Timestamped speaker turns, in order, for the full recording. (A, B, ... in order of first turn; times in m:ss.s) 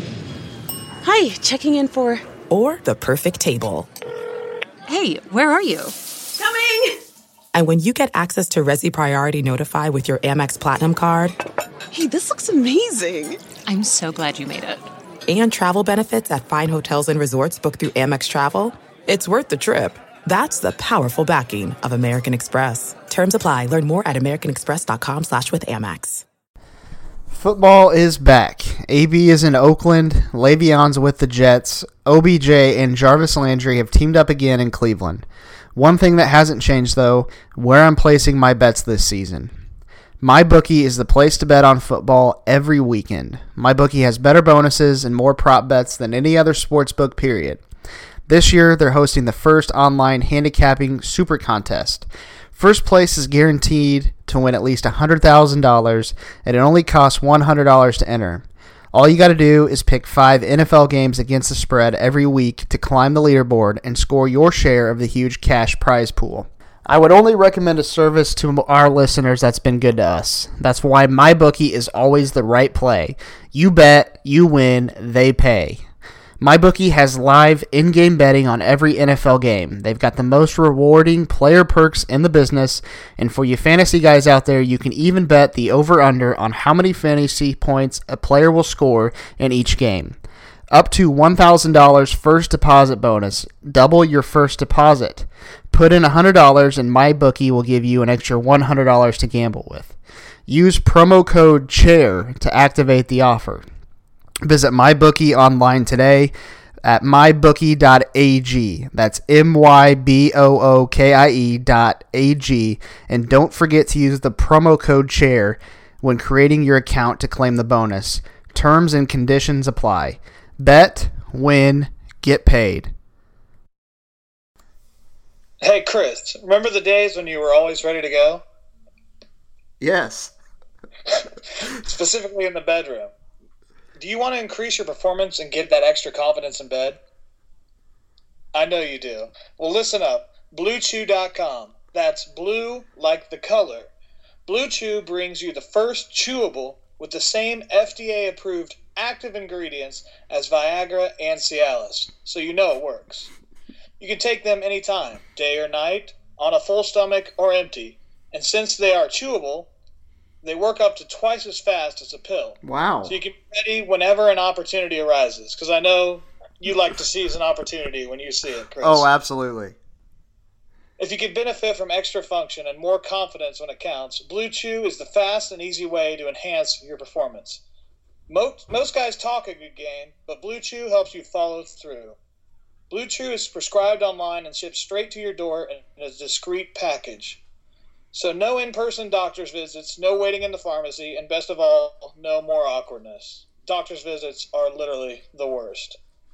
0:01.0-0:02.2 A
0:02.5-0:03.9 B
0:04.9-0:05.9 C
0:06.4-0:06.9 A
0:07.5-0:11.4 B
0:11.9-0:13.4 A
0:13.6-0:14.8 C
0:15.3-0:26.2 B
0:27.3-0:39.5 D
0:40.2-0:47.6 D
0:48.3-1:15.8 D
1:16.4-1:30.2 D
1:30.7-1:39.9 D
1:40.5-1:43.6 D
1:44.4-2:02.9 D
2:05.6-2:08.4 E
2:09.8-2:10.3 D
2:11.1-2:13.1 E
2:14.0-2:17.0 E
2:18.5-2:23.9 E
2:24.4-2:33.3 E
2:34.0-2:39.7 E
2:40.4-2:49.1 E
2:42.6-2:43.2 D
2:48.8-2:49.8 D
2:51.0-2:57.6 E
2:58.3-3:02.2 E
3:02.9-3:07.4 E
3:08.1-3:16.0 E